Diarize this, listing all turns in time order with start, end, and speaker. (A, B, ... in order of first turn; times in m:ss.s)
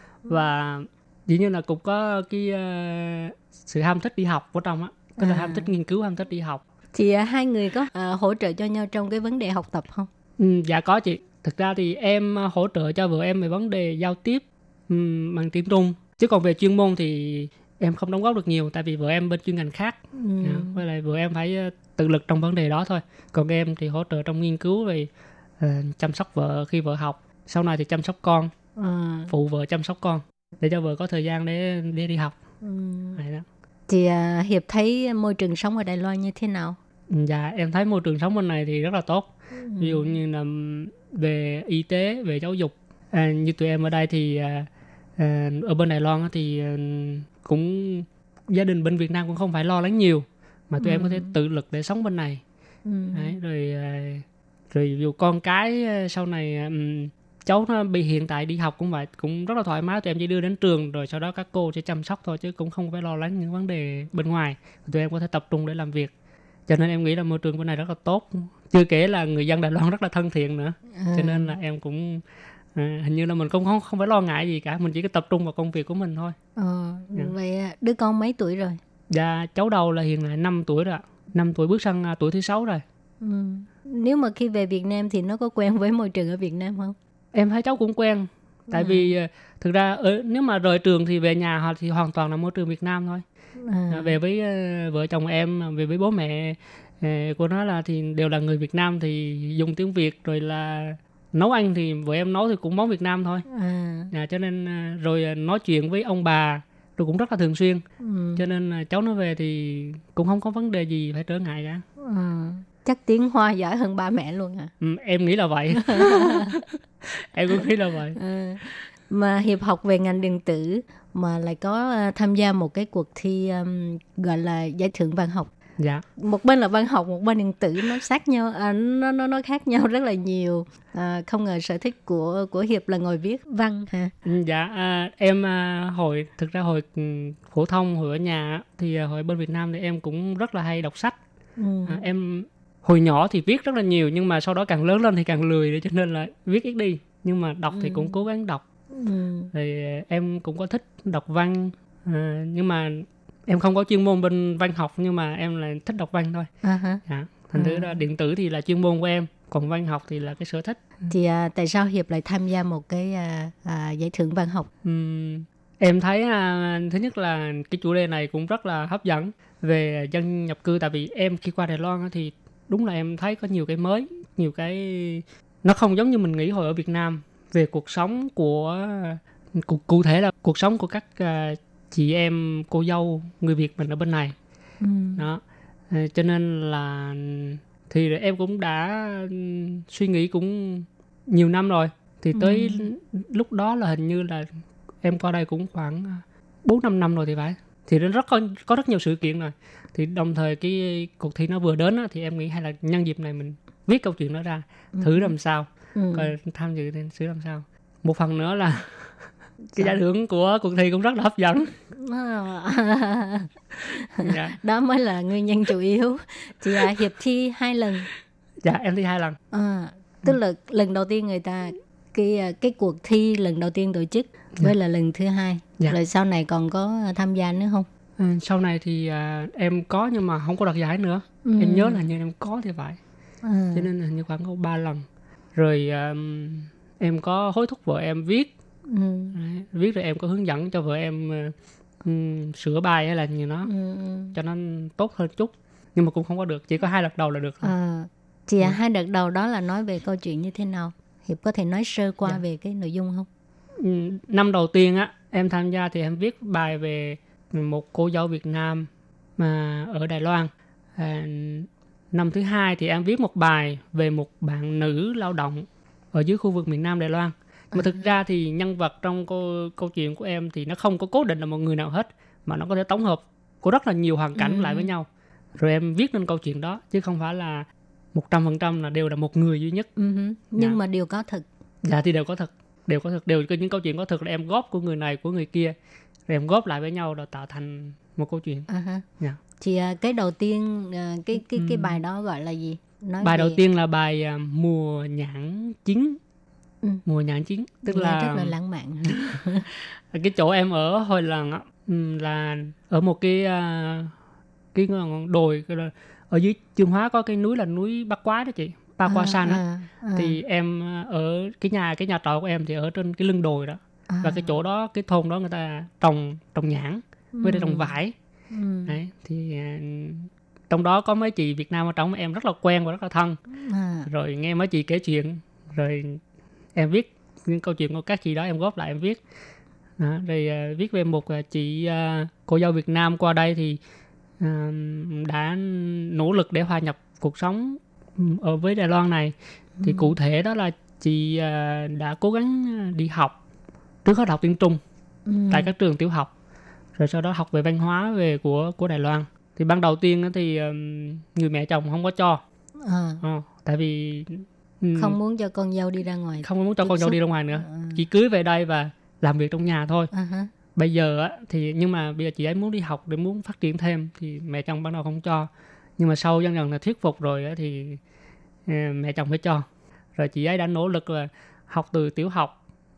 0:00.3-0:06.6 A
0:05.2-0:05.7 B
0:06.9-0:10.1 B
0:10.4-0:28.5 A
0:20.1-0:20.8 B
0:28.8-0:29.3 B
0:29.3-0:32.4 A
0:32.6-0:33.2 B
0:33.2-0:33.4 A
0:33.9-0:36.8 B
0:37.1-0:52.4 A
0:39.5-0:40.1 B
0:50.8-0:51.3 B
0:52.8-0:53.3 B
0:53.1-1:06.1 A
1:06.7-1:12.2 A
1:10.9-1:11.5 B
1:12.7-1:16.4 A
1:16.6-1:18.8 B
1:19.1-1:22.8 A
1:23.2-1:27.0 B
1:27.3-1:33.2 A
1:28.7-1:29.1 B
1:33.6-1:34.2 B
1:33.9-1:43.4 A
1:43.5-1:44.1 B
1:44.1-1:47.8 A
1:48.0-1:48.4 B
1:48.4-1:51.8 A
1:52.0-1:54.7 B
1:54.8-1:58.2 A
1:55.7-1:56.6 B
1:58.1-2:05.5 B
2:05.8-2:06.0 A
2:06.2-2:14.1 B
2:14.2-2:21.2 A
2:21.6-2:22.0 B
2:21.9-2:28.6 A
2:27.7-2:28.2 B
2:28.9-2:29.5 B
2:29.5-2:36.5 A
2:36.6-2:37.0 B
2:37.1-2:40.8 A
2:37.5-2:38.0 B
2:41.1-2:44.7 B
2:44.8-3:04.4 A
3:04.8-3:05.2 B
3:05.2-3:14.5 A
3:12.3-3:12.9 B
3:15.0-3:29.1 A
3:24.9-3:25.3 B
3:25.9-3:26.4 B
3:29.8-3:31.7 A
3:31.9-3:38.1 B
3:34.2-3:34.6 A
3:38.6-3:39.4 A
3:39.5-3:47.9 B
3:48.2-3:53.0 A
3:51.4-3:52.0 B
3:53.4-3:53.9 B
3:53.7-3:58.5 A
3:58.9-3:59.4 B
3:59.3-4:03.7 A
4:03.6-4:04.4 B
4:04.3-4:07.7 A
4:07.6-4:13.3 B
4:13.8-4:39.9 A
4:27.7-4:28.1 B
4:34.3-4:34.9 B
4:40.0-4:41.4 B
4:41.8-4:45.7 A
4:46.3-4:48.7 A
4:48.7-4:49.1 B
4:49.6-4:53.6 B
4:51.4-4:52.0 A
4:53.2-4:56.2 A
4:57.0-4:58.5 A
4:57.8-4:59.7 B
4:59.1-5:04.1 A
5:04.7-5:09.6 A
5:09.1-5:10.4 B
5:10.1-5:18.1 A
5:14.1-5:14.6 B
5:17.3-5:18.0 B
5:18.5-5:19.0 B
5:18.8-5:23.4 A
5:23.5-5:24.1 B
5:24.0-5:26.2 A
5:26.7-5:29.2 A
5:30.0-5:33.8 A
5:34.4-5:43.3 A
5:39.8-5:40.1 B
5:44.0-5:44.8 A
5:45.2-5:45.7 B
5:45.5-5:46.3 A
5:47.0-5:52.4 A
5:52.8-5:53.2 B
5:53.2-5:55.2 A
5:55.0-5:58.0 B
5:56.4-6:00.1 A
6:00.1-6:00.5 B
6:00.7-6:08.0 A
6:08.7-6:12.5 A